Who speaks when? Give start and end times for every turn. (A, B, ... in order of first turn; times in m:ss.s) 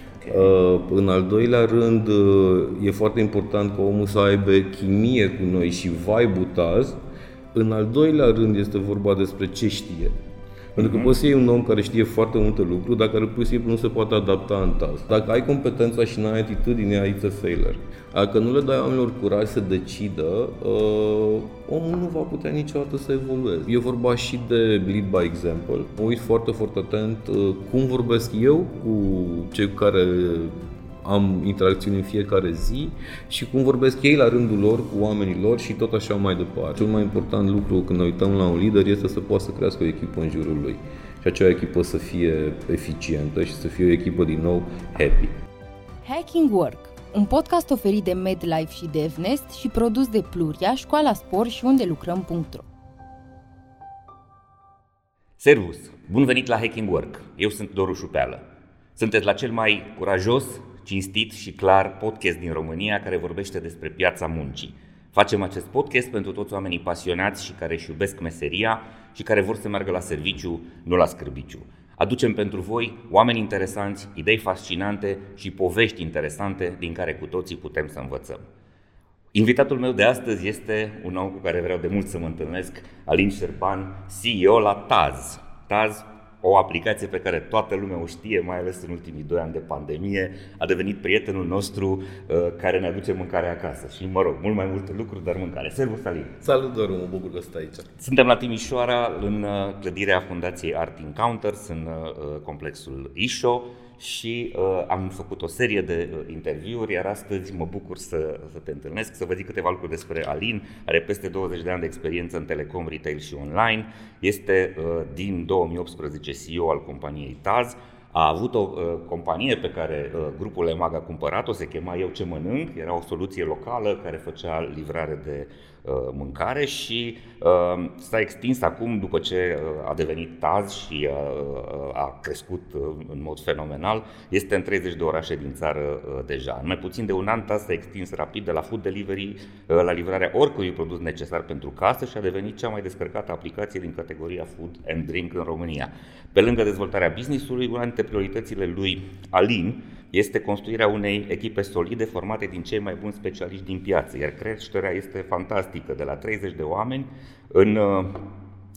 0:00.2-0:00.5 A
0:00.3-0:07.0 B
0:07.5-0:10.2 B
0:10.8-0:45.3 B
0:10.8-0:11.1 A
0:46.0-0:52.7 C
0:55.4-0:58.4 A
0:59.0-1:18.5 A
1:19.3-1:36.4 A
1:36.4-1:37.9 B
1:38.0-2:38.3 A